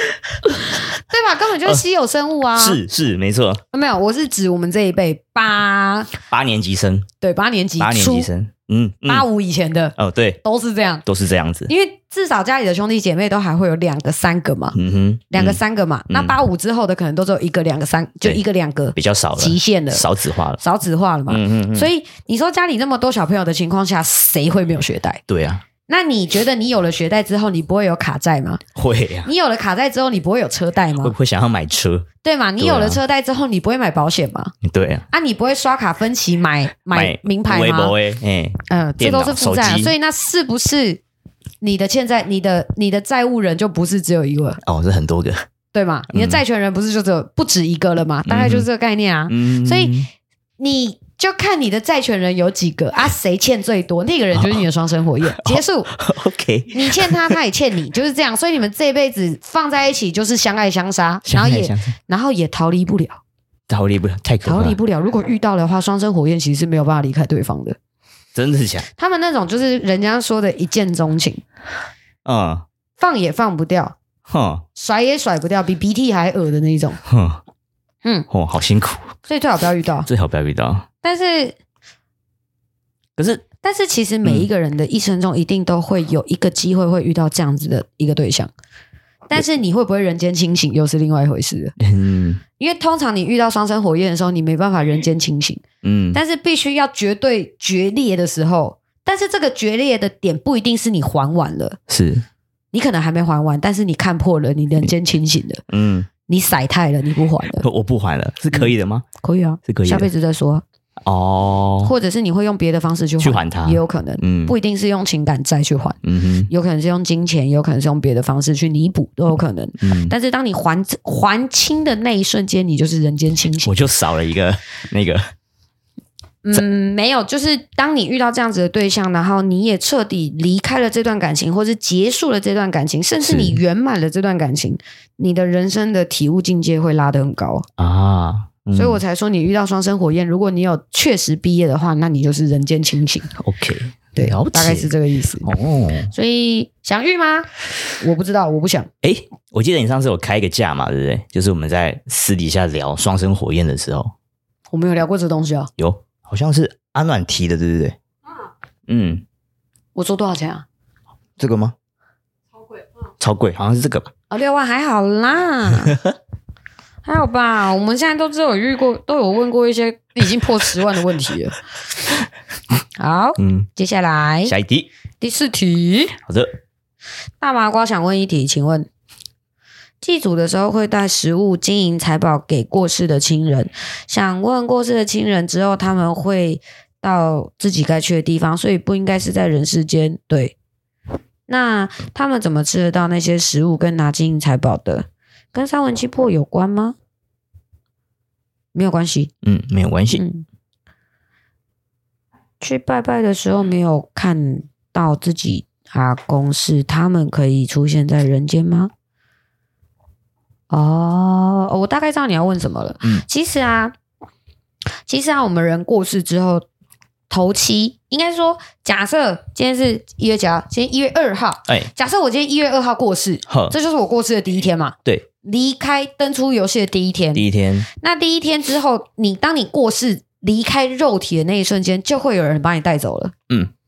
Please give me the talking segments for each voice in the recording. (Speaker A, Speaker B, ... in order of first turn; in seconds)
Speaker A: 0.5-2.8, 3.7-6.1, 7.2-8.3, 9.1-11.0, 11.7-14.8, 15.3-20.1, 20.6-25.2, 25.9-28.6, 29.2-31.1, 32.2-34.5, 35.1-37.9, 38.7-41.0, 41.6-44.6, 45.7-50.0, 50.6-55.9, 56.7-63.2, 64.4-67.8, 69.0-71.4, 73.0-73.9, 74.7-77.0, 79.2-80.1, 81.0-81.6, 83.6-88.5, 89.3-91.7, 92.6-95.6, 96.1-101.8, 102.7-105.6, 106.3-107.7, 108.5-110.6, 111.8-116.0, 116.5-123.7, 126.4-137.7, 138.7-143.3, 144.2-145.5, 146.1-148.9, 154.7-155.7, 159.9-160.7, 164.3-166.0, 167.0-171.6, 173.0-174.5, 175.2-176.2, 177.4-178.9, 180.0-190.6, 191.5-196.9, 198.7-199.3, 200.1-200.4, 202.6-208.9, 210.7-213.9, 215.1-216.6, 217.3-227.4, 228.0-233.3
Speaker B: 2.6-3.6, 6.3-7.1, 7.8-9.3, 10.0-10.4, 11.0-11.7, 14.7-16.4, 18.9-20.6, 21.3-21.9, 25.3-25.6, 28.7-29.3, 31.0-32.1, 32.6-33.0, 34.6-35.0, 36.9-39.9, 44.6-45.4, 46.1-46.4, 48.2-48.7, 49.3-50.1, 54.3-54.6, 55.3-57.4, 61.2-61.9, 63.7-64.8, 68.3-68.9, 72.2-72.6, 74.3-74.6, 77.0-77.4, 78.3-79.1, 80.1-80.8, 83.2-83.4, 91.8-92.4, 95.8-96.2, 101.9-102.2, 105.7-106.1, 107.6-109.0, 109.7-110.1, 111.0-111.9, 113.2-114.5, 116.0-116.5, 119.8-120.1, 123.6-125.3, 133.2-133.6, 137.8-139.0, 143.4-144.9, 145.4-146.1, 149.0-154.1, 155.8-157.9, 158.9-159.2, 161.4-161.7, 163.2-164.1, 173.4-173.7, 174.4-174.9, 176.2-176.5, 199.4-200.2, 223.5-223.7, 227.3-227.9